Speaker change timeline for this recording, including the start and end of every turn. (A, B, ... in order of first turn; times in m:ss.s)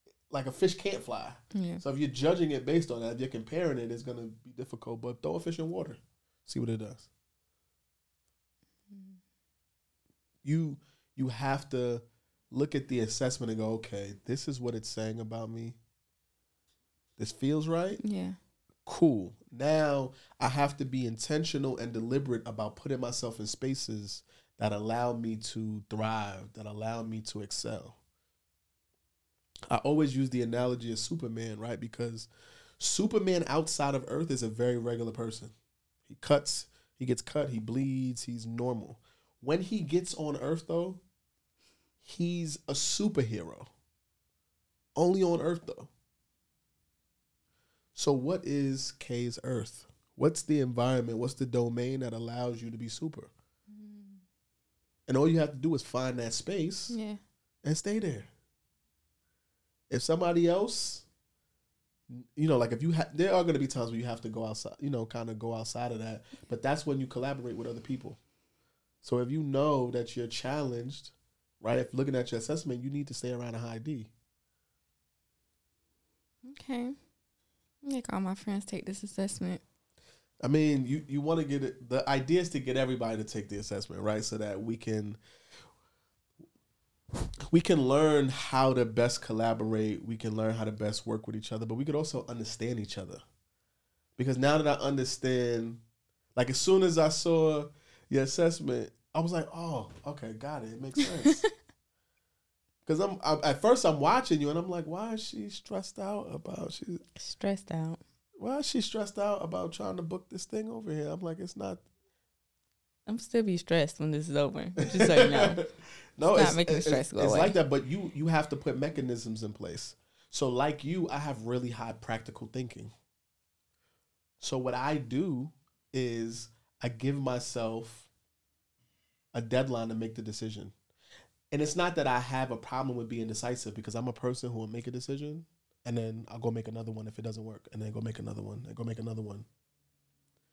0:00.3-0:07.1 A
0:01.5-0:01.8 B
0:08.9-0:09.2 B
0:10.4-0:15.8 A
0:17.2-0:18.0 A
0:18.0-0:18.4 B
0:18.8-0:28.0 A
0:29.7-0:35.5 A
0:36.0-0:41.0 A
0:42.0-0:43.7 A
0:45.0-0:45.9 A
0:47.9-0:53.3 A
0:53.7-0:54.2 B
0:55.1-0:57.0 A
0:56.9-0:57.2 B
0:57.6-0:58.3 A
0:59.9-1:01.0 A
1:02.1-1:08.2 A
1:09.0-1:14.1 A
1:16.4-1:16.9 B
1:17.8-1:19.6 B
1:20.4-1:25.2 A
1:27.5-1:33.2 A
1:34.2-1:35.8 A
1:36.3-1:41.4 A
1:42.8-1:47.0 A
1:47.2-1:48.0 B
1:48.4-1:51.8 A
1:53.1-1:55.6 B
1:54.8-2:02.9 A
1:56.3-1:57.5 B
2:04.4-2:08.1 A
2:09.3-2:10.7 A
2:11.5-2:19.4 A